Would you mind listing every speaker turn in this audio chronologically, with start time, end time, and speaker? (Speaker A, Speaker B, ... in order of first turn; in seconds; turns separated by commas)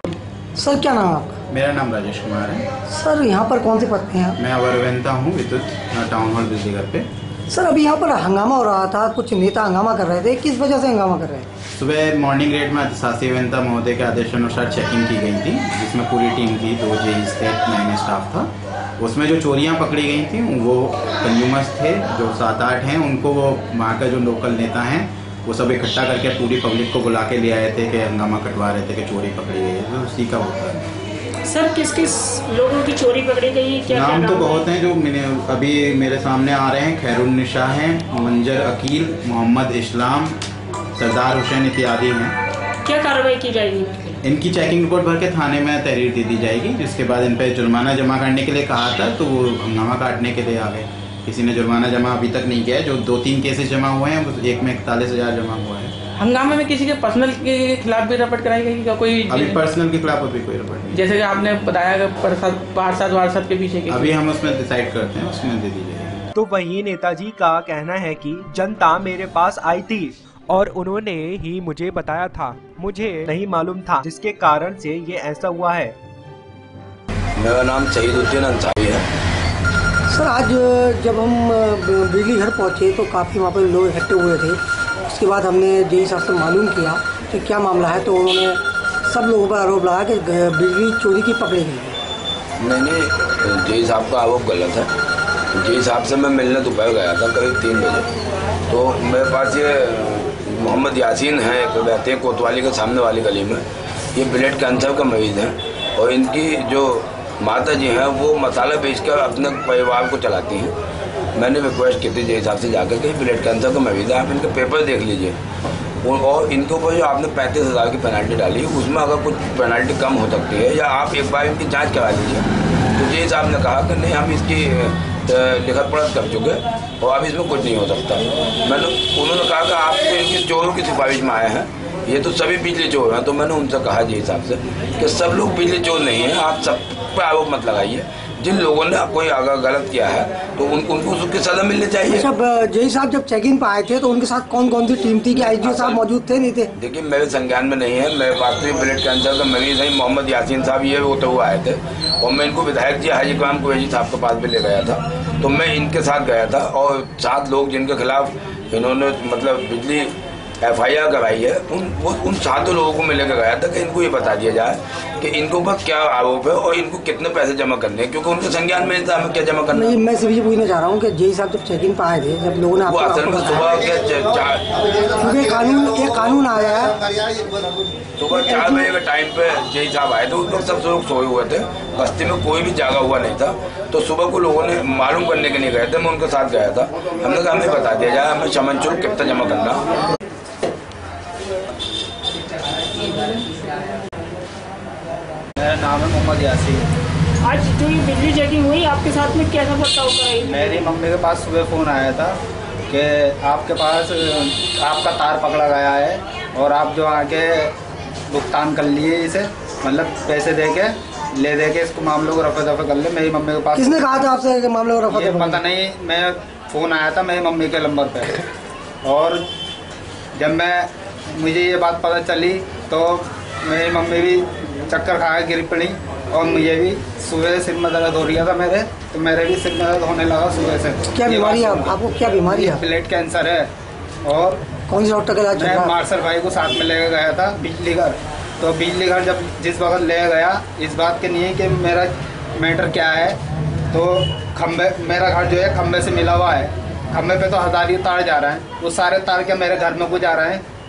Speaker A: 0.6-1.4, Speaker B: 1.5-2.7, Speaker A: 2.9-4.4, Speaker B: 4.4-7.1, Speaker A: 7.5-11.5, Speaker B: 11.8-30.8, Speaker C: 31.4-34.7, Speaker B: 33.9-40.4, Speaker B: 41.0-42.4, Speaker C: 42.9-44.2, Speaker B: 44.2-55.9, Speaker D: 56.2-59.6, Speaker B: 59.3-61.0, Speaker D: 60.9-64.1, Speaker B: 63.9-66.2, Speaker E: 66.3-76.0, Speaker F: 77.4-79.0, Speaker A: 80.1-92.0, Speaker F: 92.6-94.9, Speaker F: 95.5-98.1, Speaker F: 98.7-103.6, Speaker F: 104.2-110.7, Speaker F: 111.3-115.4, Speaker F: 116.0-142.3, Speaker A: 142.1-146.7, Speaker F: 145.3-146.0, Speaker F: 146.8-169.9, Speaker A: 169.7-173.7, Speaker F: 172.8-174.9, Speaker A: 175.2-177.1, Speaker F: 178.2-189.9, Speaker G: 195.6-196.8, Speaker C: 197.4-200.9, Speaker G: 200.4-207.7, Speaker G: 208.3-214.2, Speaker A: 213.7-215.6, Speaker G: 215.1-218.3, Speaker G: 219.0-219.4, Speaker G: 220.4-233.7, Speaker A: 231.1-232.8, Speaker G: 234.2-234.7, Speaker A: 234.9-236.0, Speaker G: 235.5-243.4, Speaker G: 243.9-250.6